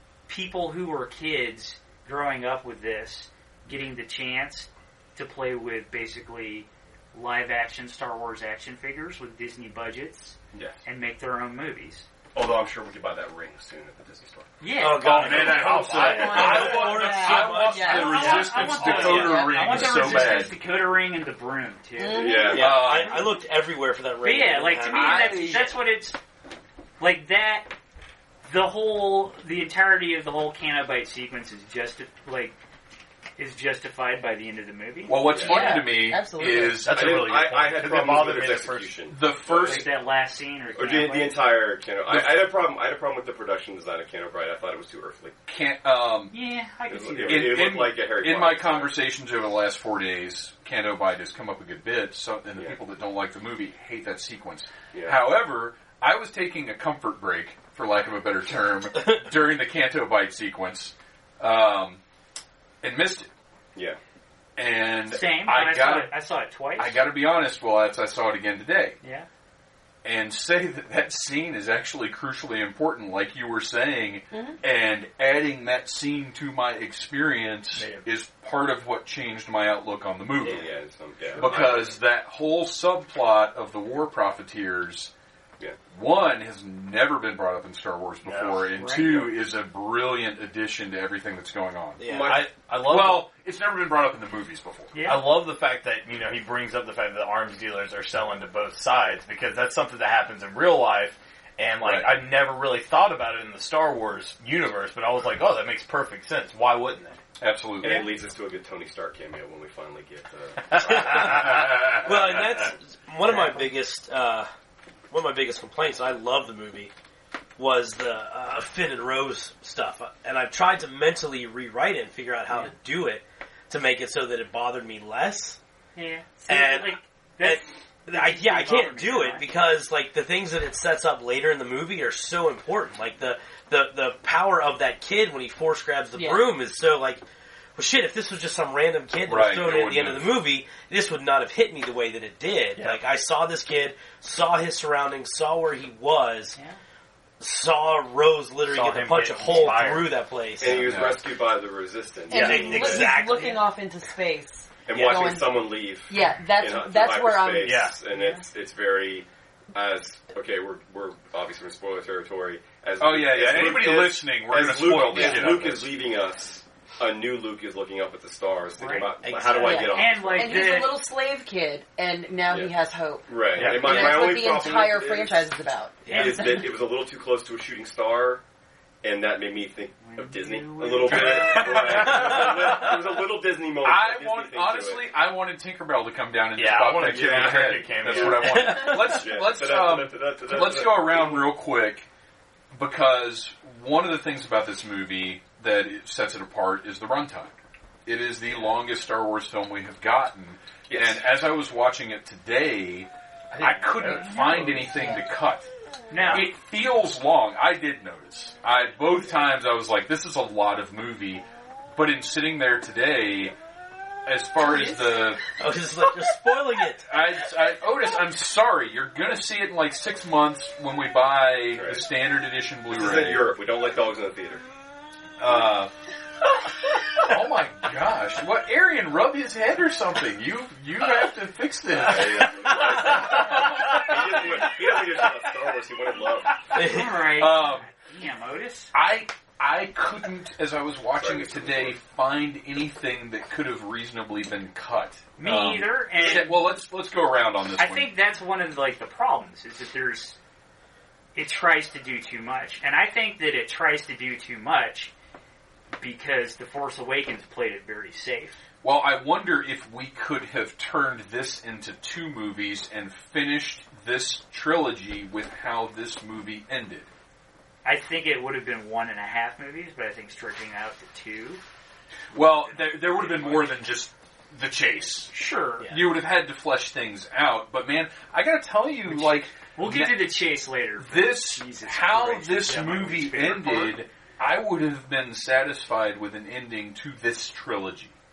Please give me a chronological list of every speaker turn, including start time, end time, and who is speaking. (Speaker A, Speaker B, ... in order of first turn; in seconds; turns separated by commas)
Speaker A: 0.3-12.1, Speaker B: 10.5-10.8, Speaker B: 12.3-14.5, Speaker A: 14.6-15.4, Speaker C: 14.7-19.4, Speaker D: 14.9-20.5, Speaker E: 15.1-17.0, Speaker F: 16.0-19.6, Speaker A: 17.7-23.0, Speaker F: 22.0-22.7, Speaker B: 22.1-22.9, Speaker C: 22.3-25.4, Speaker D: 22.5-23.3, Speaker A: 24.2-26.2, Speaker D: 24.9-25.7, Speaker A: 27.0-27.7, Speaker A: 28.4-32.5, Speaker A: 33.4-35.2, Speaker D: 35.1-37.1, Speaker B: 35.3-35.8, Speaker F: 35.4-36.9, Speaker E: 36.4-38.9, Speaker B: 36.9-39.9, Speaker D: 39.1-39.9, Speaker A: 39.5-41.4, Speaker B: 40.8-45.3, Speaker D: 42.1-42.4, Speaker D: 45.5-46.3, Speaker A: 46.3-47.6, Speaker B: 46.9-48.9, Speaker D: 47.2-62.0, Speaker B: 54.9-55.2, Speaker D: 62.8-63.3, Speaker D: 64.5-66.2, Speaker A: 65.1-67.0, Speaker D: 66.7-69.0, Speaker A: 69.0-69.3, Speaker D: 70.0-80.7, Speaker F: 74.3-74.6, Speaker E: 77.7-78.0, Speaker B: 80.4-82.0, Speaker D: 81.4-85.1, Speaker D: 85.9-92.1, Speaker E: 88.2-89.2, Speaker A: 88.7-89.3, Speaker C: 92.0-92.5, Speaker B: 92.0-92.5, Speaker E: 92.3-93.2, Speaker D: 92.8-94.9, Speaker A: 94.9-95.2, Speaker E: 95.0-107.2, Speaker D: 101.8-102.2, Speaker D: 107.4-108.1, Speaker B: 107.8-111.5, Speaker E: 110.7-111.8, Speaker C: 110.8-114.5, Speaker C: 115.1-116.9, Speaker C: 117.6-125.6, Speaker A: 126.0-129.4, Speaker C: 126.5-137.2, Speaker F: 136.2-136.4, Speaker C: 137.8-146.6, Speaker D: 139.3-140.4, Speaker C: 147.4-150.9, Speaker E: 148.6-150.2, Speaker B: 150.6-153.1, Speaker D: 150.7-151.2, Speaker F: 152.3-157.9, Speaker E: 152.3-152.7, Speaker C: 152.3-153.7, Speaker B: 154.9-170.7, Speaker E: 157.6-158.0, Speaker A: 158.1-158.5, Speaker D: 163.0-165.9, Speaker F: 165.1-165.5, Speaker A: 168.8-169.1, Speaker C: 169.2-169.9, Speaker F: 169.6-176.6, Speaker A: 169.9-170.9, Speaker B: 172.5-172.7, Speaker B: 173.3-175.5, Speaker E: 173.6-174.3, Speaker C: 176.0-176.5, Speaker B: 176.1-178.4, Speaker A: 176.1-176.4, Speaker B: 179.0-185.1, Speaker A: 180.0-182.5, Speaker D: 181.1-182.5, Speaker D: 183.8-192.1, Speaker E: 186.5-188.9, Speaker B: 187.0-191.4, Speaker D: 192.7-197.5, Speaker D: 198.1-205.7, Speaker B: 200.9-201.2, Speaker E: 203.5-205.0, Speaker F: 204.5-205.2, Speaker A: 206.1-206.5, Speaker D: 206.3-211.4, Speaker D: 211.9-213.5, Speaker D: 214.2-215.4, Speaker C: 215.5-217.1, Speaker D: 217.1-223.5, Speaker B: 221.7-222.0, Speaker B: 222.9-224.6, Speaker D: 225.4-225.9, Speaker D: 227.2-234.6, Speaker B: 231.9-236.7, Speaker C: 236.7-237.1, Speaker A: 236.7-238.9, Speaker D: 236.8-237.9, Speaker D: 238.9-248.1, Speaker B: 241.2-241.9, Speaker A: 245.4-246.6, Speaker A: 247.8-250.4, Speaker A: 251.3-255.1, Speaker A: 256.0-258.6, Speaker D: 258.8-267.1, Speaker A: 267.8-271.6, Speaker D: 272.3-275.3, Speaker A: 272.4-273.8, Speaker A: 275.3-275.9, Speaker D: 275.8-280.3, Speaker A: 279.1-284.0, Speaker D: 281.0-288.1, Speaker E: 282.7-283.0